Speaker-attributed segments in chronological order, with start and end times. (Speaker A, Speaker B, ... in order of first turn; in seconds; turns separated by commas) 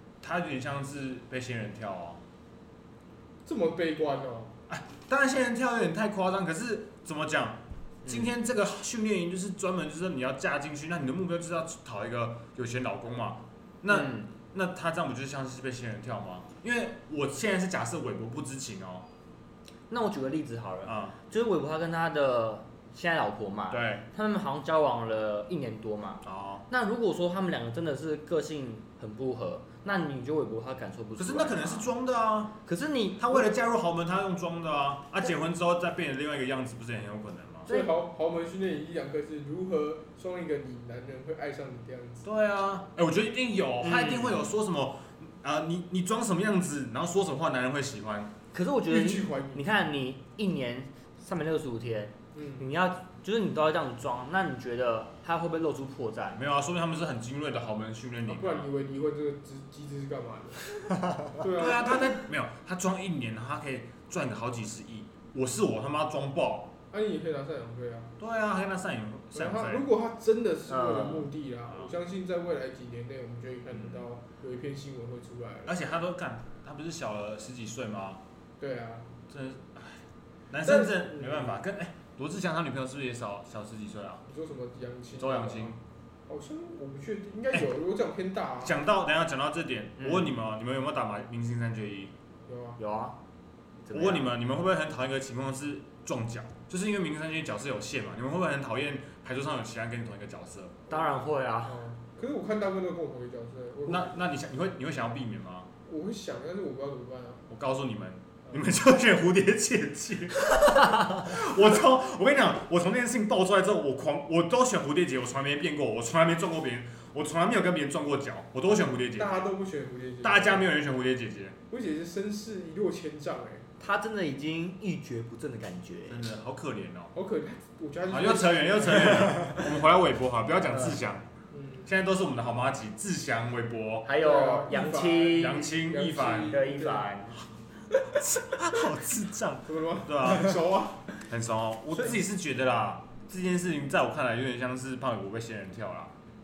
Speaker A: 0.2-2.2, Speaker B: 3.5-4.5, Speaker A: 4.7-19.1, Speaker C: 8.0-8.3, Speaker C: 13.9-14.3, Speaker C: 19.9-31.9, Speaker A: 20.9-21.2, Speaker A: 23.7-24.0, Speaker A: 26.2-26.6, Speaker A: 31.2-32.6, Speaker C: 32.6-33.5, Speaker A: 33.2-37.7, Speaker B: 37.7-42.2, Speaker C: 37.7-37.9, Speaker A: 42.2-48.3, Speaker C: 43.8-44.4, Speaker C: 48.5-56.4, Speaker B: 48.9-49.7, Speaker B: 52.3-52.6, Speaker A: 56.3-58.7, Speaker B: 58.3-60.6, Speaker B: 61.3-62.0, Speaker A: 61.5-66.7, Speaker B: 66.9-68.1, Speaker A: 68.2-69.8, Speaker B: 69.3-75.7, Speaker C: 70.7-71.3, Speaker A: 75.7-78.2, Speaker B: 78.6-79.1, Speaker A: 79.3-84.2, Speaker B: 80.6-81.6, Speaker B: 84.3-85.8, Speaker A: 85.2-85.8, Speaker B: 86.3-88.8, Speaker A: 88.6-92.1, Speaker C: 90.0-90.3, Speaker B: 92.5-92.8, Speaker C: 92.8-93.2, Speaker C: 93.8-94.3, Speaker A: 93.9-100.8, Speaker C: 100.9-101.8, Speaker B: 101.6-104.2, Speaker A: 103.8-105.7, Speaker B: 105.8-107.5, Speaker A: 107.5-119.5, Speaker B: 119.2-120.7, Speaker A: 120.2-121.6, Speaker B: 121.7-123.7, Speaker C: 123.8-126.2, Speaker A: 126.1-127.1, Speaker B: 127.1-129.6, Speaker A: 128.1-131.2, Speaker C: 130.7-131.0, Speaker B: 131.5-131.9, Speaker A: 131.8-134.1, Speaker C: 134.1-135.7, Speaker B: 134.2-137.1, Speaker A: 135.3-136.6, Speaker C: 136.4-137.4, Speaker A: 138.1-140.6, Speaker B: 139.7-141.1, Speaker A: 141.3-146.1